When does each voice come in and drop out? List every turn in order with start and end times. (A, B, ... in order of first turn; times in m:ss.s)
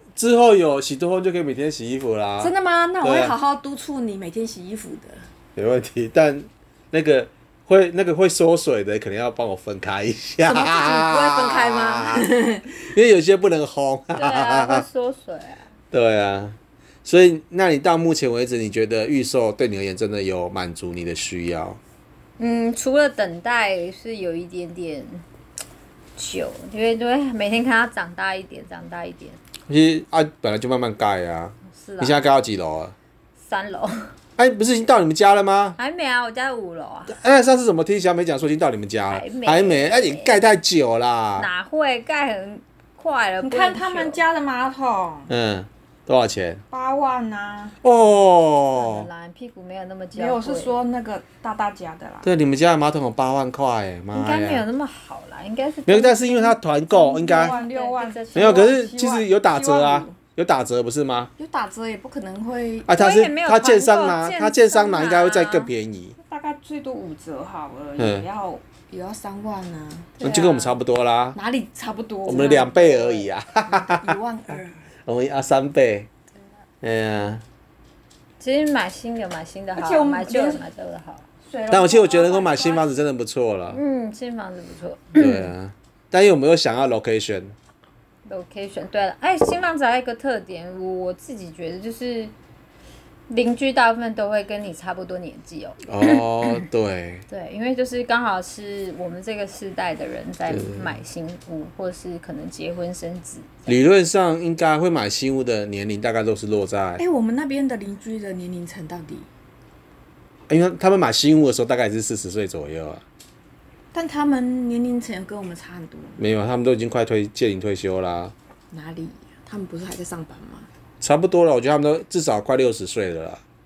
0:00.2-0:03.3 A
0:02.4-0:05.3 B
0:05.6-0:12.3 A
0:10.4-0:12.8 B
0:12.8-0:14.9 A
0:14.2-0:15.7 C
0:15.9-0:21.8 A
0:22.4-0:25.2 C
0:26.2-0:29.4 C
0:29.7-0:32.9 A
0:31.7-0:32.2 C
0:33.4-0:34.1 C
0:34.4-0:35.8 A
0:35.8-0:37.2 C
0:37.1-0:41.5 A
0:39.1-0:40.4 C
0:41.4-0:44.2 C
0:43.4-0:45.3 B
0:45.3-0:46.6 A
0:46.7-0:47.8 B
0:47.8-0:49.1 A
0:48.7-0:50.8 C
0:50.2-0:52.3 B
0:52.2-0:54.6 A
0:54.1-0:58.7 C
0:55.9-0:57.6 A
0:56.9-1:00.2 B
0:58.4-1:01.3 A
1:01.4-1:02.9 B
1:02.9-1:06.2 A
1:02.9-1:05.7 C
1:06.2-1:10.1 B
1:08.0-1:08.2 A
1:10.2-1:10.8 C
1:10.2-1:11.4 A
1:11.3-1:14.9 B
1:12.2-1:14.2 A
1:15.0-1:16.1 A
1:16.8-1:17.4 A
1:18.4-1:21.2 C
1:19.7-1:20.6 B
1:21.4-1:22.9 B
1:21.7-1:23.8 A
1:23.7-1:25.5 C
1:25.1-1:27.5 A
1:28.2-1:32.3 C
1:33.3-1:36.6 C
1:35.9-1:37.2 A
1:37.3-1:43.8 C
1:40.5-1:40.9 A
1:43.7-1:47.0 A
1:47.0-1:49.3 B
1:50.5-1:53.0 A
1:53.9-1:56.2 B
1:56.2-1:58.3 A
1:58.7-2:00.7 B
2:01.0-2:03.4 A